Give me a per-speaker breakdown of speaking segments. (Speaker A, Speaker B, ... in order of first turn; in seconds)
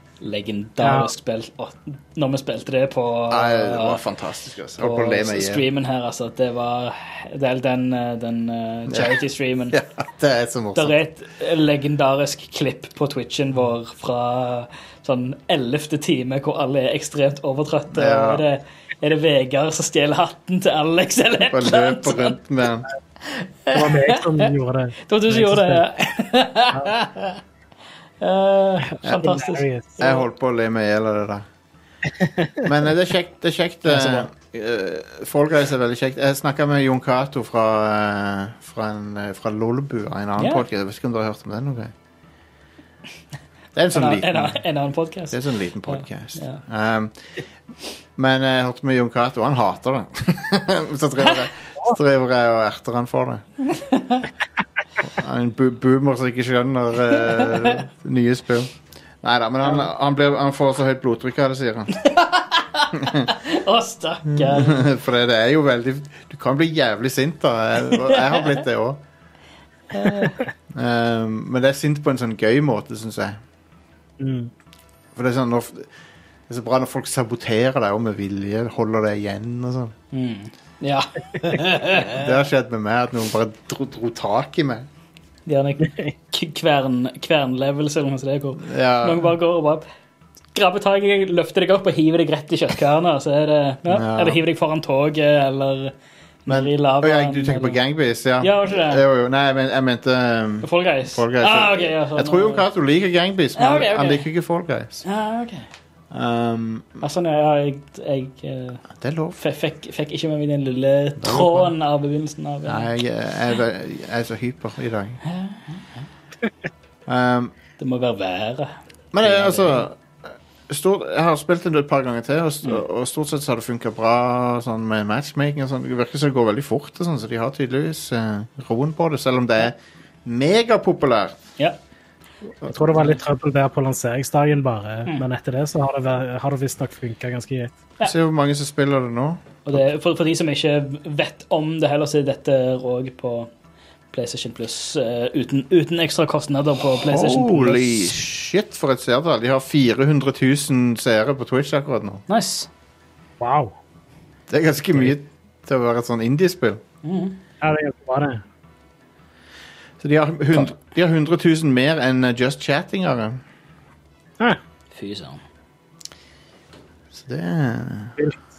Speaker A: 0.2-4.0, 4.8-9.8, 10.8-22.4, 23.2-24.5, 25.1-27.4, 28.2-30.2, 40.4-40.6, 43.9-46.6, 53.7-54.3, 62.0-64.9, 67.9-68.5, 69.9-70.4, 80.1-82.3, 85.5-89.8, 90.5-95.9, 96.5-97.8, 98.4-99.0, 100.6-102.6, 103.6-104.3, 105.0-105.7, 107.0-108.8, 109.4-112.9, 115.2-115.8, 117.8-119.9, 139.7-143.5, 144.1-148.2, 152.3-152.7, 157.0-157.4, 164.9-165.4
Speaker B: 0.8-1.1, 23.7-25.8, 29.0-30.0, 74.2-74.5, 132.7-137.8, 153.4-153.7, 157.6-158.4
Speaker C: 3.3-5.7, 8.9-9.2, 9.7-11.0, 17.9-18.4, 21.4-22.9, 30.0-31.5, 32.6-41.9, 43.8-44.6, 45.3-47.1, 48.2-53.5, 55.0-61.9, 62.9-63.3, 64.3-69.0, 70.7-73.4, 75.2-75.9, 76.5-80.0, 82.0-84.9, 88.6-89.3, 93.9-94.4, 96.5-105.0, 106.1-107.0, 108.9-109.4, 111.2-111.7, 112.7-115.2, 117.1-117.5, 119.1-131.4, 138.0-139.6, 147.1-152.2, 154.5-156.8, 160.0-163.4, 167.1-168.2